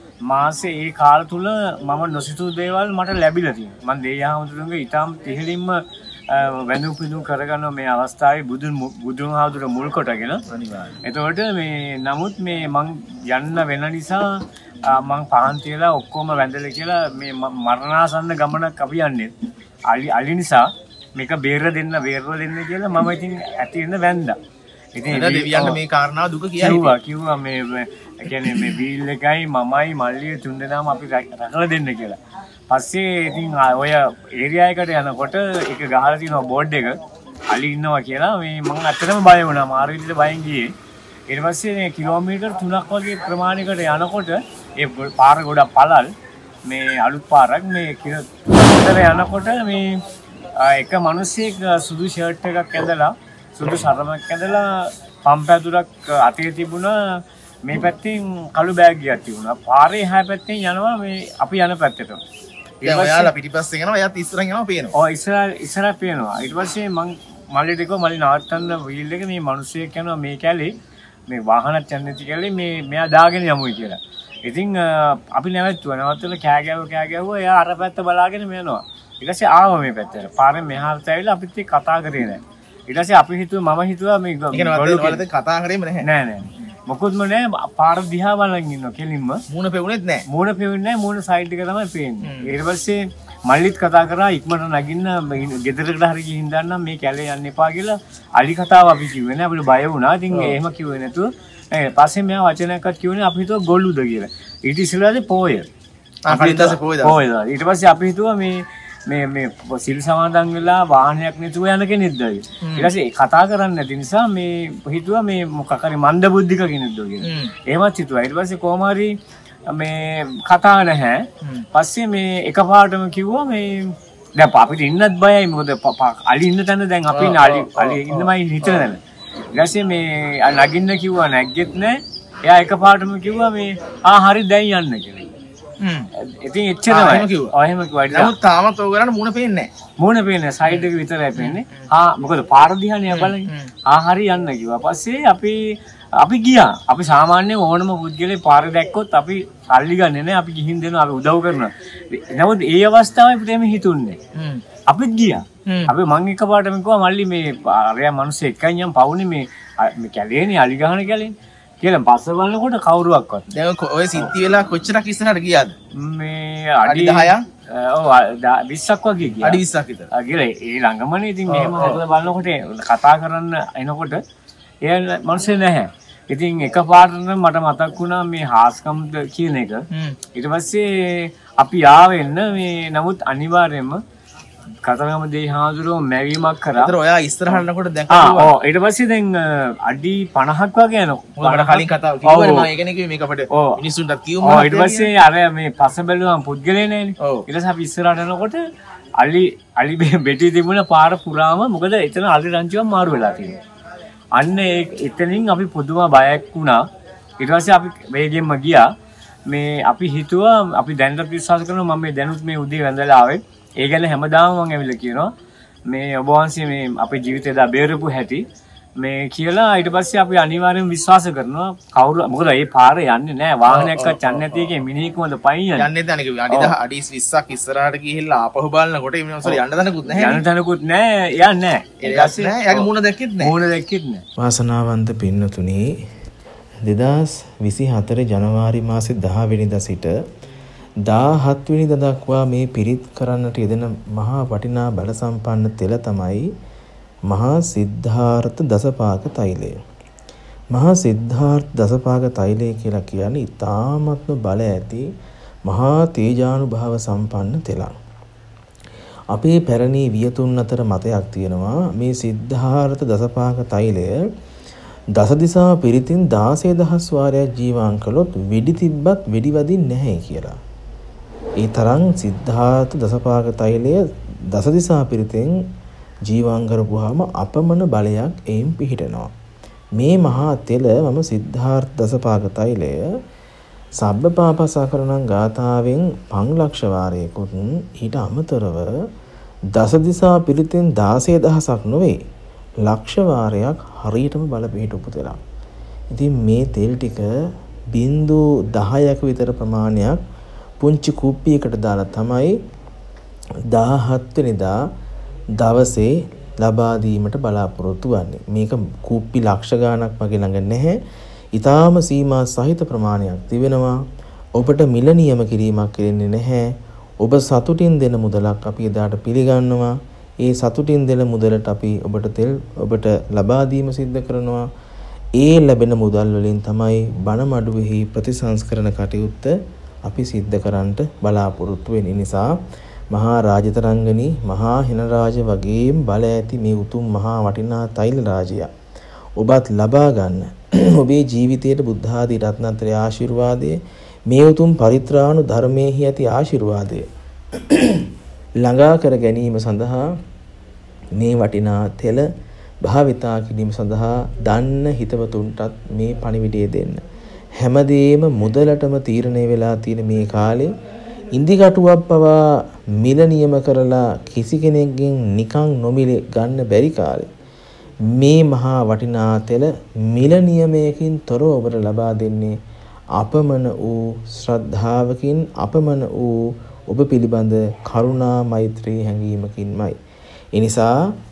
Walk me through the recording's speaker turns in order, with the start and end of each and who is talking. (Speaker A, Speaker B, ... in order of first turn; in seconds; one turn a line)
Speaker A: 0.2-10.4
Speaker B: 10.5-11.0
Speaker A: 11.0-19.3
Speaker A: 19.9-24.4
Speaker A: 24.9-25.8
Speaker B: 25.1-26.9
Speaker A: 26.6-32.2
Speaker B: 28.4-28.8
Speaker A: 32.7-40.7
Speaker A: 41.3-46.1
Speaker A: 46.6-49.9
Speaker A: 50.6-57.0
Speaker A: 57.6-62.2
Speaker A: 62.8-63.3
Speaker B: 62.8-64.9
Speaker A: 64.9-70.7
Speaker A: 71.3-85.2
Speaker B: 84.5-86.1
Speaker A: 86.0-89.4
Speaker B: 89.5-90.2
Speaker A: 90.3-105.7
Speaker B: 92.2-92.5
Speaker B: 100.3-100.6
Speaker B: 106.2-107.2
Speaker A: 106.3-119.1
Speaker B: 112.6-112.9
Speaker B: 117.2-117.5
Speaker A: 119.7-129.0
Speaker B: 127.1-128.9
Speaker A: 129.5-135.3
Speaker B: 135.8-136.1
Speaker A: 136.2-138.3
Speaker B: 136.9-137.5
Speaker B: 138.1-139.7
Speaker A: 140.0-154.2
Speaker B: 140.6-141.9
Speaker B: 143.1-143.7
Speaker B: 154.3-154.6
Speaker A: 154.9-163.4
Speaker B: 155.7-155.9
Speaker B: 163.5-165.7
Speaker A: 166.0-174.2
Speaker B: 166.8-167.4
Speaker B: 169.4-170.1
Speaker B: 171.5-172.0
Speaker A: 174.8-184.0
Speaker B: 179.9-180.2
Speaker A: 184.8-187.0
Speaker B: 186.8-188.5
Speaker A: 187.5-192.7
Speaker B: 191.4-195.1
Speaker A: 193.5-193.8
Speaker A: 194.4-198.6
Speaker A: 199.2-203.6
Speaker A: 204.3-206.9
Speaker A: 207.4-208.9
Speaker A: 209.4-215.3
Speaker A: 215.9-218.4
Speaker A: 219.0-225.9
Speaker B: 223.7-224.7
Speaker B: 225.8-230.4
Speaker A: 226.5-226.7
Speaker A: 229.4-234.2
Speaker B: 232.0-233.6
Speaker C: 234.4-235.9
Speaker C: 236.8-240.2
Speaker C: 241.0-246.5
Speaker C: 247.3-249.8
Speaker C: 250.7-255.0
Speaker C: 255.7-257.9
Speaker C: 259.3-264.2
Speaker C: 265.1-270.6
Speaker C: 271.6-275.5
Speaker C: 276.3-279.3
Speaker C: 280.0-283.1
Speaker C: 284.0-288.9
Speaker C: 289.8-292.2
Speaker C: 292.9-295.4
Speaker C: 296.1-297.3
Speaker C: 297.9-300.2
Speaker C: 300.8-302.5
Speaker C: 303.7-304.7
Speaker C: 305.6-311.0
Speaker C: 311.6-313.9
Speaker C: 314.6-316.7
Speaker C: 317.2-324.6
Speaker C: 325.4-329.5
Speaker C: 330.1-332.4
Speaker C: 333.1-338.7
Speaker C: 339.4-343.8
Speaker C: 344.3-348.1
Speaker C: 348.6-350.0
Speaker C: 351.2-352.2
Speaker C: 352.8-357.0
Speaker C: 357.6-360.7
Speaker C: 361.4-362.4
Speaker C: 363.0-367.3
Speaker C: 368.1-372.5
Speaker C: 373.2-379.9
Speaker C: 380.6-380.9